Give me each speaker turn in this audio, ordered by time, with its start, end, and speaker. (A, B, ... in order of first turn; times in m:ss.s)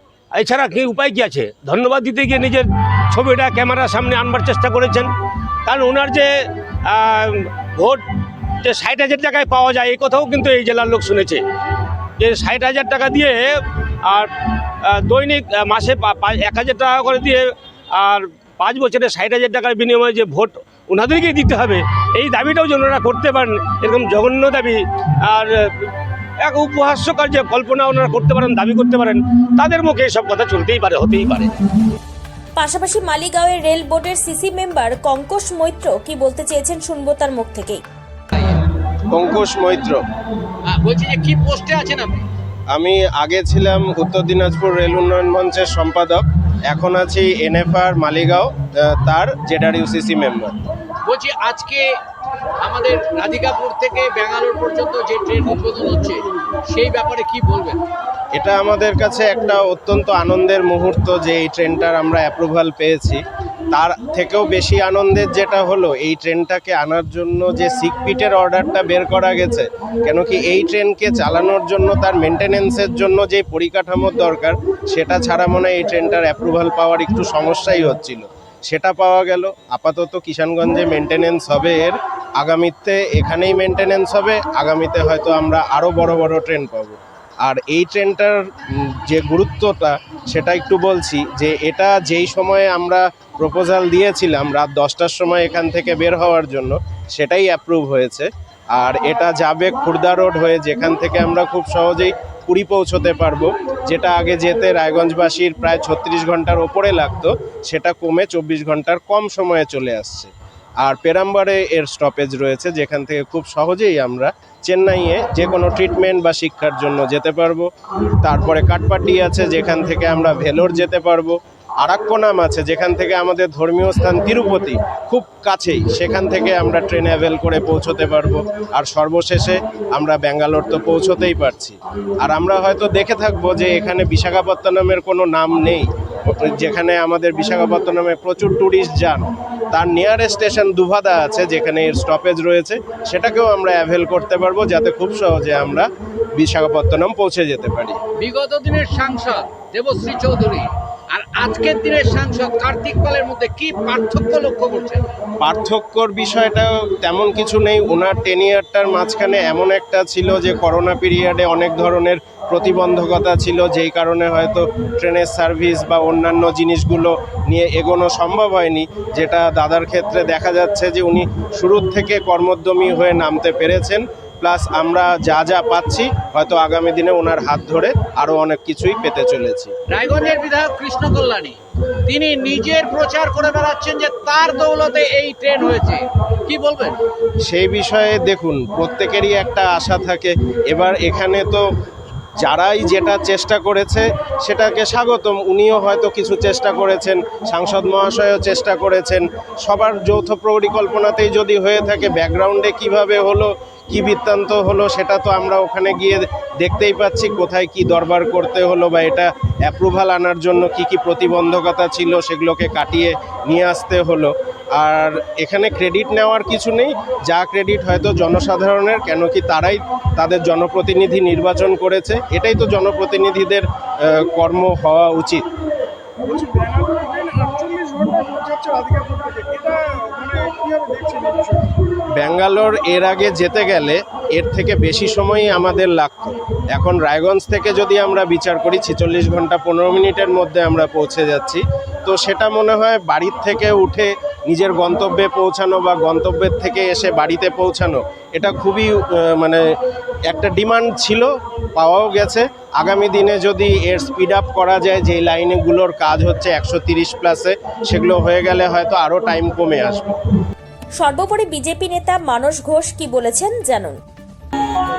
0:00.3-0:05.1 A
0:05.6-0:06.3 A
0:06.8-0:08.0 A
0:08.6-0:11.4 A
0:12.2-0:25.9 A
0:26.4-0:31.5 A
0:32.6-0:37.8 B
0:39.1-0:40.0 C
0:40.7-0:42.2 D
0:42.7-0:50.6 C
0:51.0-0:51.8 D
0:52.6-0:57.8 D
0:58.3-1:57.7 C
1:58.2-2:28.0 C
2:28.2-2:35.0 D
2:35.4-2:59.7 C
2:59.9-3:07.0 D
3:07.4-3:11.6 C
3:12.4-3:45.4 C
3:46.3-3:48.8 E
3:52.2-4:09.6 C
4:10.3-4:20.2 C
4:21.0-4:24.0 B